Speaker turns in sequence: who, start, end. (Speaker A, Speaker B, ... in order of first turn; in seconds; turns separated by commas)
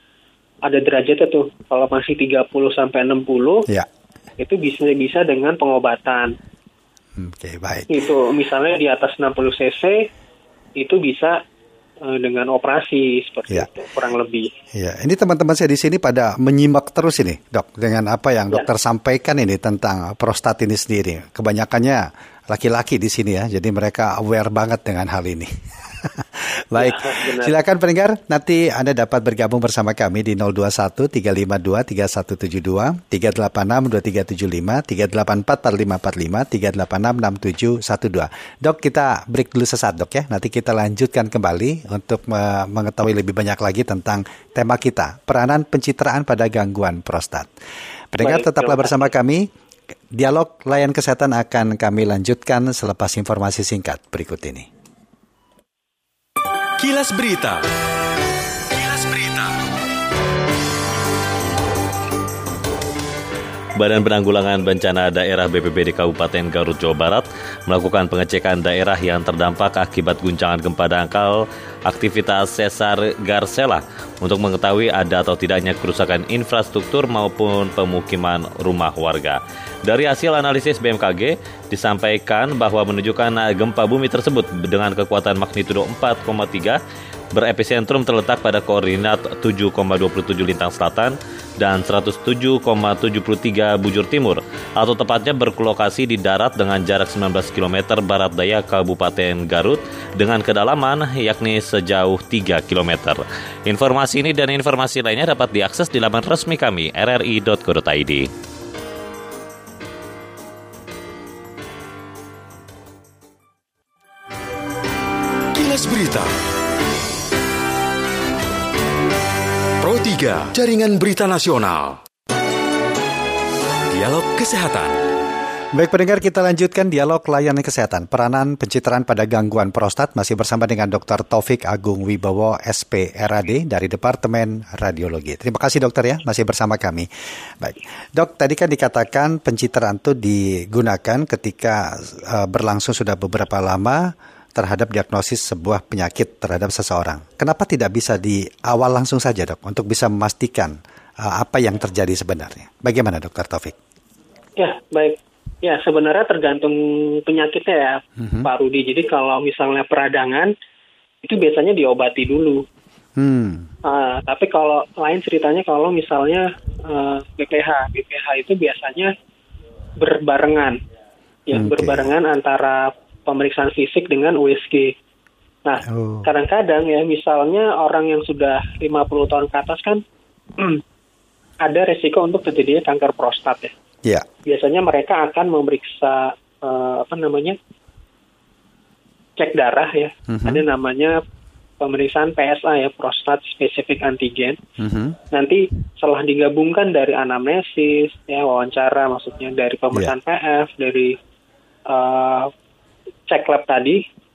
Speaker A: 0.6-3.6, Speaker A: 4.4-6.3, Speaker B: 7.2-8.0, Speaker A: 7.9-10.1, Speaker A: 10.8-11.4, Speaker A: 12.0-14.5, Speaker B: 14.7-47.5, Speaker A: 26.8-27.5, Speaker B: 48.1-49.4, Speaker A: 48.2-49.1, Speaker B: 50.1-54.7, Speaker C: 56.8-57.6, Speaker C: 58.7-59.5, Speaker D: 63.8-86.8, Speaker D: 87.3-108.3, Speaker C: 115.5-116.3, Speaker C: 119.8-122.0, Speaker C: 123.9-125.0, Speaker B: 125.7-137.1, Speaker B: 137.6-153.8, Speaker A: 154.6-160.5, Speaker B: 158.2-158.5, Speaker A: 161.2-162.6, Speaker B: 163.2-163.7, Speaker A: 163.8-169.1, Speaker A: 170.0-170.8, Speaker A: 171.5-174.9, Speaker B: 171.5-172.1, Speaker A: 175.6-180.0, Speaker B: 175.8-176.3, Speaker A: 180.6-180.8, Speaker A: 181.6-183.7, Speaker A: 184.4-187.6, Speaker A: 189.3-191.2, Speaker B: 190.3-190.6, Speaker A: 191.8-194.6, Speaker B: 194.8-195.2, Speaker A: 195.3-201.1, Speaker A: 201.9-202.5, Speaker A: 203.3-204.0